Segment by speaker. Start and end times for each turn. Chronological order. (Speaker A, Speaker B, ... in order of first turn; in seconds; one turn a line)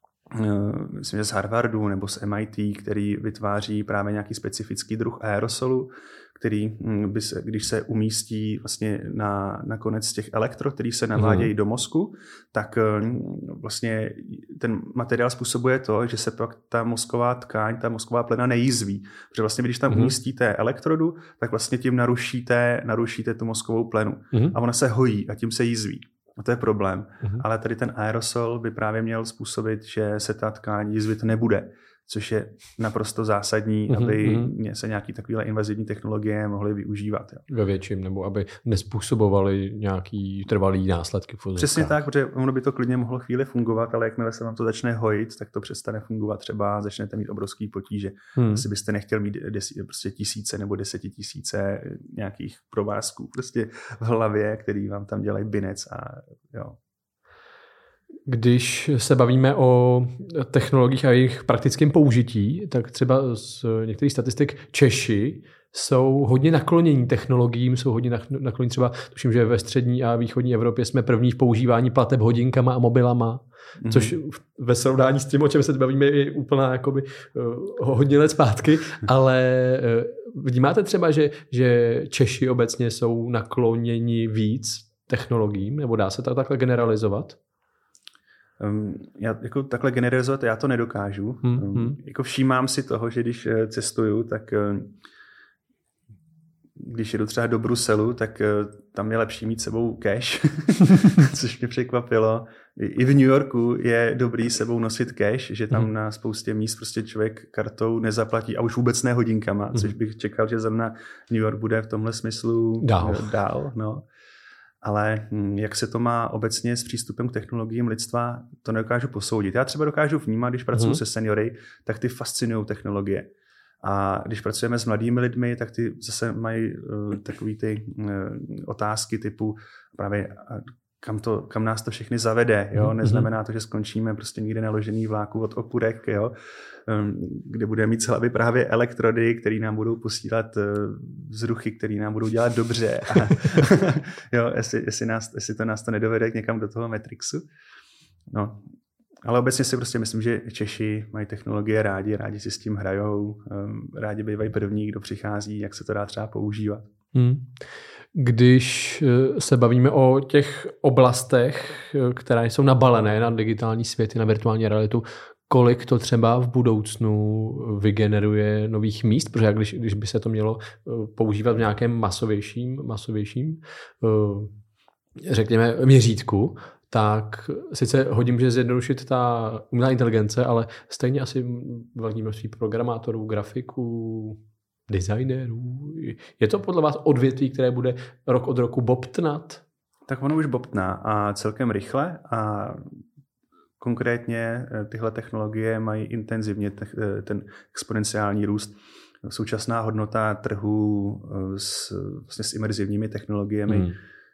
Speaker A: 0.3-37.4
Speaker B: 11.2-11.5
Speaker B: 33.9-34.5
Speaker B: 37.5-42.0
Speaker A: 41.6-56.8
Speaker B: 48.4-48.6
Speaker B: 58.3-87.4
Speaker A: 73.8-74.2
Speaker A: 88.6-94.9
Speaker B: 91.4-92.0
Speaker A: 96.8-114.0
Speaker B: 112.8-113.3
Speaker A: 114.8-123.3
Speaker B: 120.7-121.0
Speaker A: 123.8-136.3
Speaker B: 132.8-133.3
Speaker A: 136.8-147.4
Speaker A: 148.3-148.6
Speaker A: 149.2-156.9
Speaker B: 157.1-157.6
Speaker B: 158.1-174.5
Speaker B: 175.2-189.6
Speaker A: 190.1-192.9
Speaker A: 193.8-203.9
Speaker B: 203.7-203.9